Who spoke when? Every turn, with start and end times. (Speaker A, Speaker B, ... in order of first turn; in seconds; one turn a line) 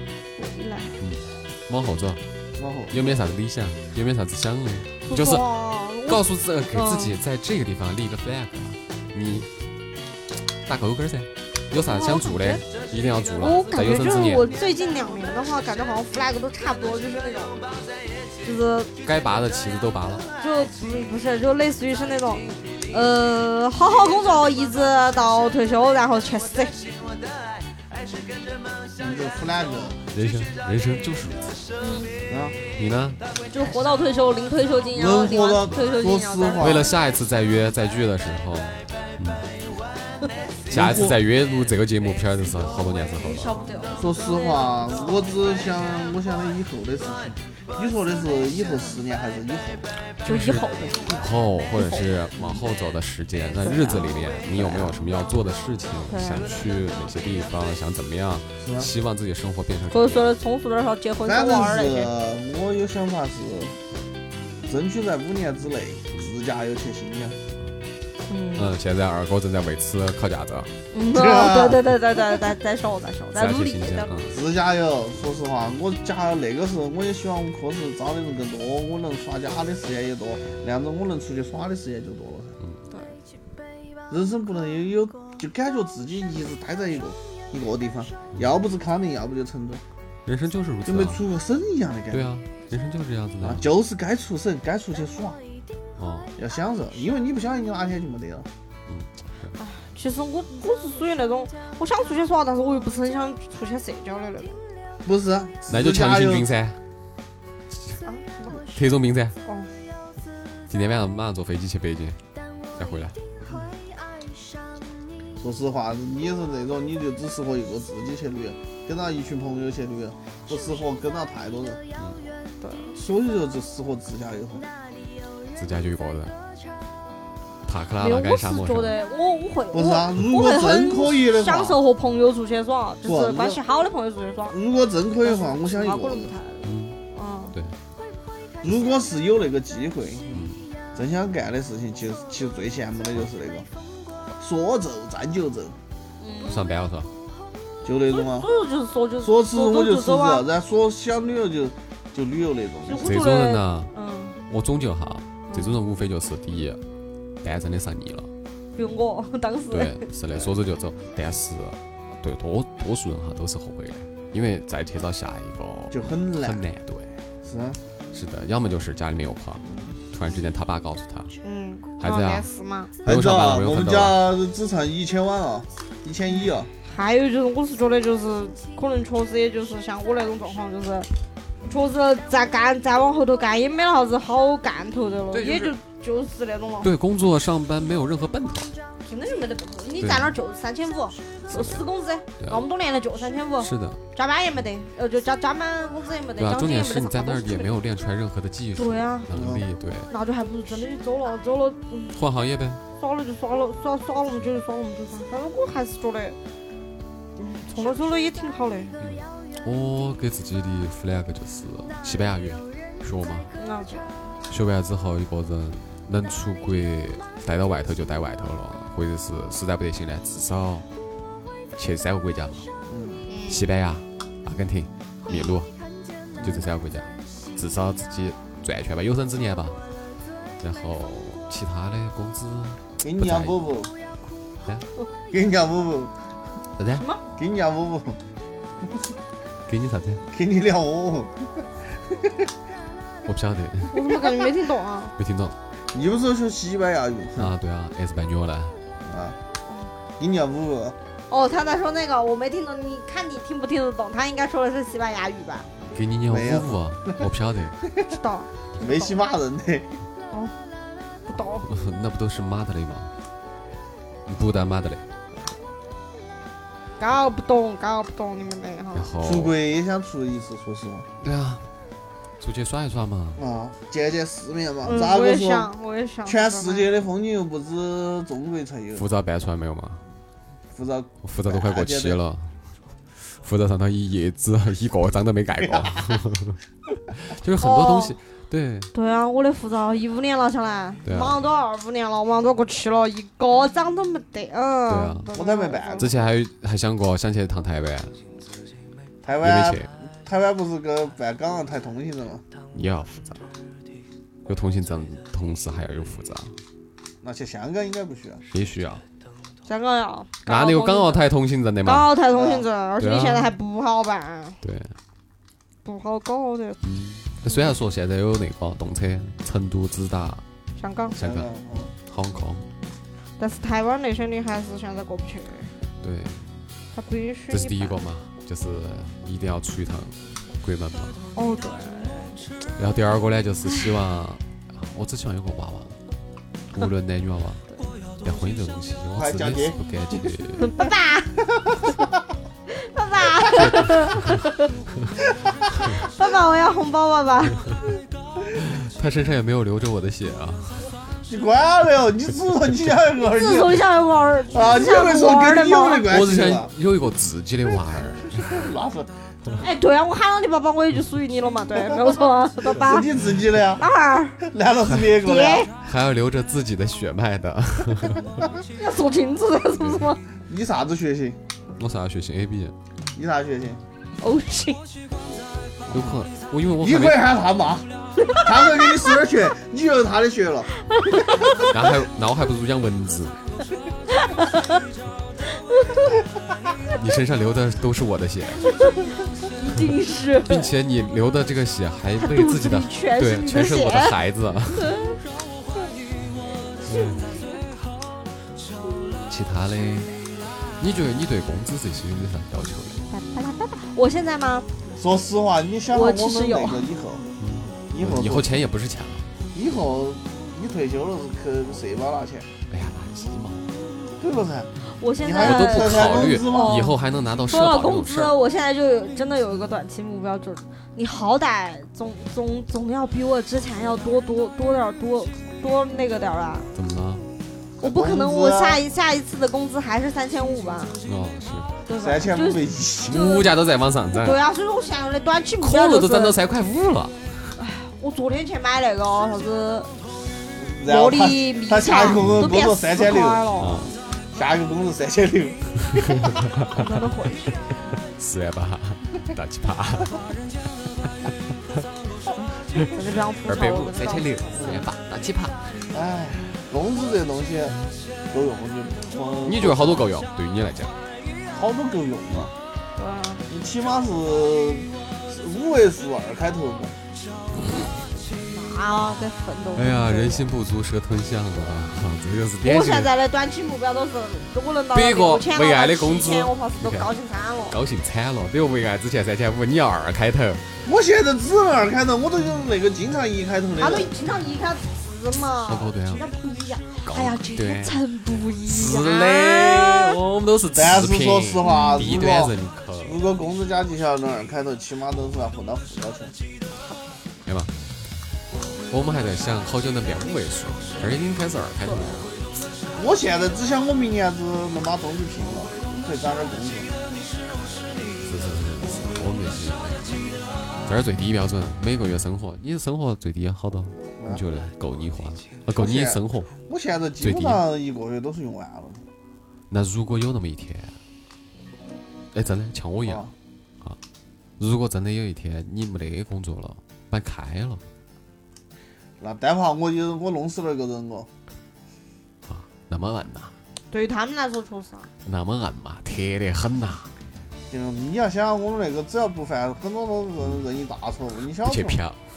Speaker A: 0.3-0.9
Speaker B: 1.0-2.2
Speaker C: 2.5-2.9
Speaker B: 2.9-5.4
Speaker A: 5.1-6.2
Speaker B: 6.0-9.5
Speaker A: 6.7-7.1
Speaker B: 10.7-14.4
Speaker A: 11.8-12.6
Speaker A: 13.4-17.7
Speaker A: 18.4-18.9
Speaker B: 19.0-20.3
Speaker A: 20.4-26.8
Speaker C: 28.9-30.0
Speaker B: 30.1-31.7
Speaker A: 31.8-32.1
Speaker C: 32.3-32.5
Speaker B: 32.7-33.2
Speaker A: 33.5-36.6
Speaker C: 34.9-37.0
Speaker B: 36.6-39.4
Speaker B: 40.7-43.5
Speaker C: 40.7-41.1
Speaker A: 43.2-45.1
Speaker C: 44.0-49.8
Speaker B: 50.2-50.6
Speaker A: 50.2-51.2
Speaker B: 51.1-60.3
Speaker A: 53.6-55.0
Speaker A: 56.1-56.5
Speaker C: 58.6-58.9
Speaker A: 59.9-62.1
Speaker C: 61.2-63.7
Speaker C: 64.6-67.4
Speaker A: 68.3-68.7
Speaker B: 68.5-70.7
Speaker A: 70.9-74.1
Speaker C: 71.1-71.8
Speaker B: 73.3-74.4
Speaker C: 74.3-82.6
Speaker A: 82.9-83.2
Speaker C: 84.1-89.8
Speaker B: 90.2-91.2
Speaker C: 90.8-92.3
Speaker B: 92.1-93.7
Speaker C: 93.4-95.4
Speaker B: 96.0-96.3
Speaker C: 96.4-98.5
Speaker B: 98.9-99.5
Speaker A: 99.6-104.6
Speaker C: 105.0-106.5
Speaker B: 105.7-106.8
Speaker A: 108.0-108.6
Speaker B: 108.7-109.3
Speaker B: 110.7-112.2
Speaker B: 112.7-113.1
Speaker C: 115.4-121.8
Speaker A: 122.6-123.0
Speaker C: 122.9-124.7
Speaker B: 125.5-126.3
Speaker B: 127.7-128.9
Speaker A: 128.0-134.6
Speaker C: 129.7-131.8
Speaker C: 133.0-133.6
Speaker C: 134.5-136.3
Speaker A: 135.2-137.5
Speaker B: 136.6-137.0
Speaker C: 138.6-143.7
Speaker B: 140.3-140.6
Speaker C: 144.4-145.8
Speaker A: 146.2-146.7
Speaker B: 146.4-147.1
Speaker C: 147.8-148.5
Speaker A: 148.1-150.4
Speaker C: 149.2-153.1
Speaker A: 152.9-154.4
Speaker B: 153.0-153.9
Speaker B: 154.5-156.8
Speaker B: 157.4-158.3
Speaker A: 158.8-160.0
Speaker B: 159.7-167.1
Speaker C: 165.9-166.6
Speaker C: 167.4-167.8
Speaker B: 168.1-171.3
Speaker A: 171.4-172.9
Speaker B: 172.0-172.4
Speaker B: 173.0-174.2
Speaker C: 173.0-176.7
Speaker A: 176.8-181.1
Speaker A: 181.7-186.9
Speaker B: 185.3-185.8
Speaker B: 186.8-188.7
Speaker A: 189.1-197.7
Speaker B: 190.0-190.3
Speaker B: 191.5-191.8
Speaker B: 193.6-194.0
Speaker B: 196.4-200.1
Speaker A: 198.8-199.3
Speaker C: 199.3-199.6
Speaker A: 200.1-202.2
Speaker B: 202.1-202.8
Speaker A: 203.0-206.4
Speaker A: 207.4-208.9
Speaker B: 209.0-213.5
Speaker A: 213.6-214.1
Speaker B: 214.5-220.8
Speaker B: 221.8-222.7
Speaker C: 222.9-223.2
Speaker A: 223.3-223.6
Speaker B: 223.5-225.7
Speaker A: 225.3-225.5
Speaker C: 226.4-226.7
Speaker B: 226.4-229.8
Speaker B: 230.6-233.6
Speaker C: 233.0-233.9
Speaker B: 234.6-234.8
Speaker C: 235.3-236.1
Speaker B: 236.8-237.0
Speaker C: 237.4-238.2
Speaker B: 239.7-240.2
Speaker C: 240.3-241.3
Speaker C: 242.1-242.3
Speaker B: 243.2-244.2
Speaker A: 243.9-245.1
Speaker B: 245.2-245.5
Speaker C: 245.9-247.5
Speaker B: 247.4-248.7
Speaker C: 249.0-249.4
Speaker C: 250.2-250.9
Speaker A: 251.3-255.7
Speaker B: 255.9-257.8
Speaker C: 256.3-256.8
Speaker A: 258.1-259.1
Speaker C: 258.8-259.9
Speaker A: 260.3-260.6
Speaker A: 261.3-261.6
Speaker B: 261.4-263.1
Speaker B: 264.3-265.0
Speaker A: 267.0-269.1
Speaker B: 268.9-269.6
Speaker C: 269.2-271.1
Speaker B: 271.2-271.6
Speaker B: 272.4-273.4
Speaker C: 273.4-275.7
Speaker A: 274.8-276.9
Speaker C: 276.2-279.0
Speaker B: 278.9-280.0
Speaker C: 280.7-282.2
Speaker B: 281.2-282.5
Speaker B: 283.1-286.6
Speaker C: 285.6-286.2
Speaker B: 287.1-288.9
Speaker A: 287.6-288.1
Speaker A: 288.9-296.1
Speaker B: 291.0-291.4
Speaker B: 294.9-295.3
Speaker C: 295.3-296.2
Speaker B: 296.0-298.1
Speaker C: 299.2-302.4
Speaker B: 299.4-299.9
Speaker B: 302.7-303.4
Speaker B: 304.4-306.6
Speaker C: 307.2-308.4
Speaker B: 308.5-309.0
Speaker A: 309.6-311.2
Speaker B: 310.4-312.1
Speaker A: 311.8-314.6
Speaker C: 312.3-312.6
Speaker B: 313.0-313.5
Speaker B: 314.6-314.9
Speaker A: 315.8-316.8
Speaker B: 316.8-320.4
Speaker A: 320.8-321.2
Speaker B: 321.1-321.5
Speaker C: 321.1-321.9
Speaker B: 322.1-322.6
Speaker A: 323.4-325.7
Speaker B: 326.0-326.4
Speaker A: 326.9-328.0
Speaker B: 327.5-331.2
Speaker A: 331.4-332.4
Speaker B: 332.8-336.0
Speaker B: 336.7-337.6
Speaker B: 338.2-340.7
Speaker C: 339.1-339.8
Speaker A: 340.6-341.4
Speaker A: 342.7-344.7
Speaker B: 343.5-344.4
Speaker A: 346.1-347.6
Speaker B: 348.9-350.9
Speaker C: 351.3-353.8
Speaker A: 353.2-356.1
Speaker C: 354.5-356.7
Speaker B: 356.1-358.7
Speaker C: 358.4-359.1
Speaker A: 359.6-363.1
Speaker C: 362.6-363.8
Speaker A: 363.8-364.4
Speaker C: 364.4-365.7
Speaker A: 365.2-365.7
Speaker B: 365.8-368.3
Speaker A: 368.8-370.2
Speaker C: 370.5-371.4
Speaker B: 371.8-372.7
Speaker C: 373.1-373.8
Speaker A: 374.2-374.8
Speaker C: 375.9-376.1
Speaker B: 375.9-377.3
Speaker C: 376.8-380.7
Speaker A: 378.3-379.1
Speaker A: 380.9-381.6
Speaker B: 381.6-383.4
Speaker A: 384.1-384.7
Speaker A: 385.7-386.0
Speaker B: 386.9-388.7
Speaker A: 389.6-390.7
Speaker B: 390.4-395.0
Speaker A: 392.2-394.1
Speaker A: 394.8-395.1
Speaker B: 396.9-397.3
Speaker B: 399.2-400.2
Speaker B: 400.8-403.1
Speaker A: 403.1-404.7
Speaker C: 404.9-407.3
Speaker A: 405.9-406.9
Speaker B: 407.4-409.3
Speaker C: 407.9-408.5
Speaker C: 409.5-412.5
Speaker B: 412.7-413.7
Speaker C: 414.2-416.8
Speaker A: 414.9-416.9
Speaker B: 415.3-418.3
Speaker A: 417.5-426.7
Speaker B: 426.7-427.2
Speaker C: 427.8-428.8
Speaker A: 427.8-430.9
Speaker B: 431.0-431.7
Speaker A: 431.9-433.5
Speaker C: 432.0-433.3
Speaker B: 433.1-434.4
Speaker A: 434.1-436.4
Speaker B: 435.6-437.5
Speaker A: 437.6-439.9
Speaker C: 440.6-443.4
Speaker A: 440.9-443.8
Speaker B: 442.2-442.4
Speaker B: 443.6-443.9
Speaker C: 444.3-446.2
Speaker B: 446.2-446.9
Speaker A: 446.7-447.7
Speaker B: 448.1-450.2
Speaker A: 452.7-454.7
Speaker B: 453.4-455.6
Speaker C: 454.6-454.9
Speaker C: 455.9-457.8
Speaker C: 458.3-460.1
Speaker B: 459.4-460.9
Speaker C: 461.5-462.5
Speaker A: 462.9-463.4
Speaker C: 463.5-466.9
Speaker A: 468.5-470.5
Speaker B: 469.8-473.1
Speaker A: 472.6-477.8
Speaker B: 474.9-477.1
Speaker B: 477.7-480.6
Speaker C: 480.8-484.1
Speaker A: 483.8-490.2
Speaker B: 485.6-486.2
Speaker B: 487.0-488.0
Speaker B: 488.6-493.2
Speaker C: 490.7-496.4
Speaker A: 491.6-492.2
Speaker B: 497.4-497.7
Speaker B: 498.9-502.3
Speaker A: 501.8-502.2
Speaker C: 502.9-507.0
Speaker B: 508.2-510.3
Speaker B: 510.8-516.5
Speaker C: 515.8-519.0
Speaker B: 517.2-517.6
Speaker B: 519.7-520.9
Speaker B: 522.3-523.3
Speaker C: 523.0-523.3
Speaker B: 524.6-527.8
Speaker C: 529.2-531.3
Speaker B: 532.4-533.5
Speaker A: 533.9-535.1
Speaker B: 535.2-537.1
Speaker C: 537.7-542.0
Speaker B: 541.6-542.2